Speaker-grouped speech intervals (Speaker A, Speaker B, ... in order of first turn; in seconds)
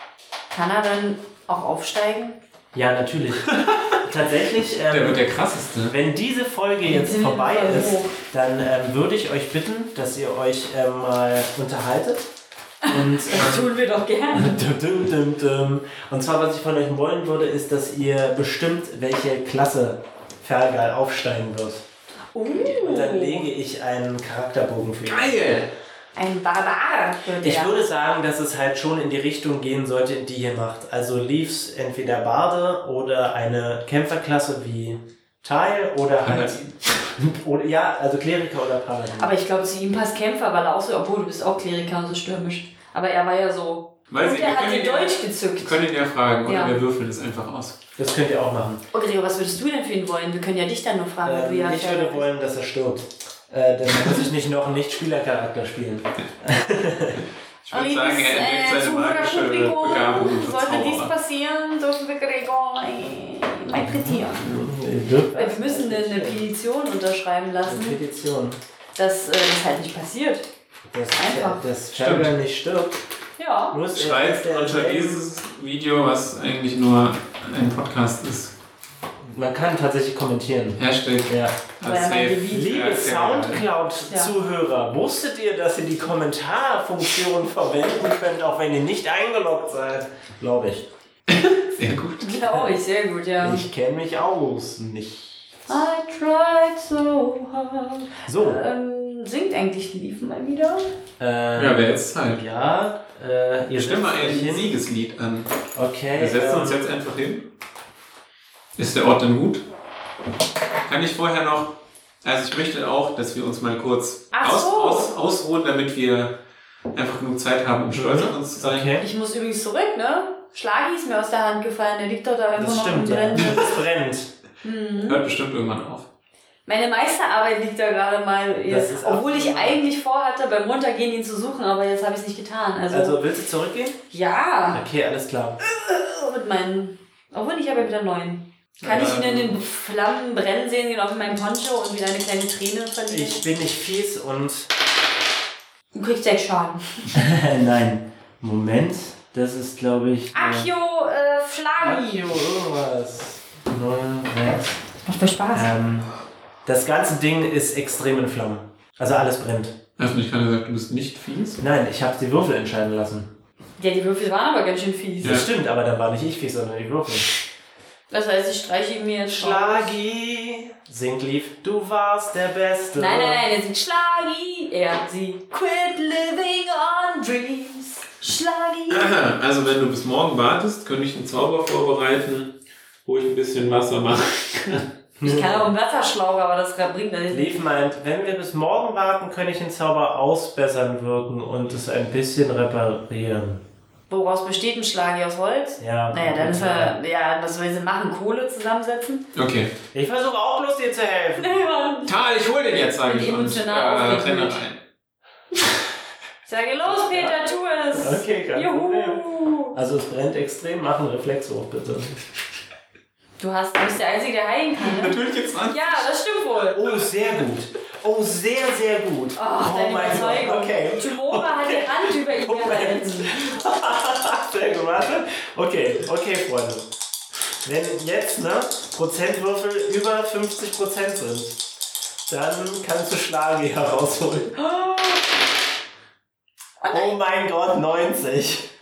Speaker A: 0.5-2.4, 6.8-8.1, 12.8-14.6, 22.3-23.4, 26.1-27.8, 39.2-45.8, 46.4-46.8, 48.9-52.3, 57.7-64.6, 65.3-68.0, 69.0-70.5, 71.1-71.6, 73.4-73.8, 81.8-82.7, 92.2-93.6, 95.7-100.9, 114.3-115.1, 119.0-123.6, 124.6-125.2, 126.7-133.2, 134.1-134.8, 135.6-143.4, 145.9-147.2, 150.3-152.3, 155.0-155.7, 163.8-165.4, 168.1-169.9, 172.9-179.2, 185.2-187.6, 194.1-199.3, 201.4-202.1, 203.0-204.6, 206.5-209.8, 213.4-216.8, 219.3-223.3, 234.6-235.2, 236.8-237.1
Speaker B: 2.7-3.5, 4.0-5.2, 5.9-12.2, 12.9-13.7, 14.3-21.8, 22.5-25.6, 27.4-39.3, 48.0-48.8, 51.2-57.2, 63.8-66.5, 67.6-68.6, 70.9-73.0, 73.7-75.2, 79.2-81.6, 82.5-90.9, 93.4-95.5, 98.2-98.6, 101.2-104.8, 105.7-106.9, 117.9-119.0, 122.5-124.3, 128.7-129.8, 132.9-134.0, 134.7-135.6, 143.1-144.7, 147.1-150.7, 151.8-154.8, 155.5-156.1, 156.6-159.8, 161.6-163.3, 165.2-167.3, 169.3-173.4, 185.2-185.7, 187.3-193.6, 195.8-196.9, 199.9-201.6, 206.8-212.2, 216.7-226.9, 227.6-231.7, 232.3-234.5, 236.9-238.7
Speaker C: 3.5-4.0, 4.9-5.9, 25.1-25.7, 36.2-37.1, 44.1-47.8, 57.6-61.1, 71.9-72.3, 73.9-78.5, 80.8-83.6, 91.3-92.4, 101.5-102.4, 103.8-105.5, 106.1-107.5, 108.8-109.6, 110.8-116.3, 116.9-118.9, 123.4-123.7, 125.0-126.0, 138.8-139.6, 160.0-161.6, 178.9-182.5, 183.0-184.8, 199.3-199.7, 202.1-204.8, 214.8-216.1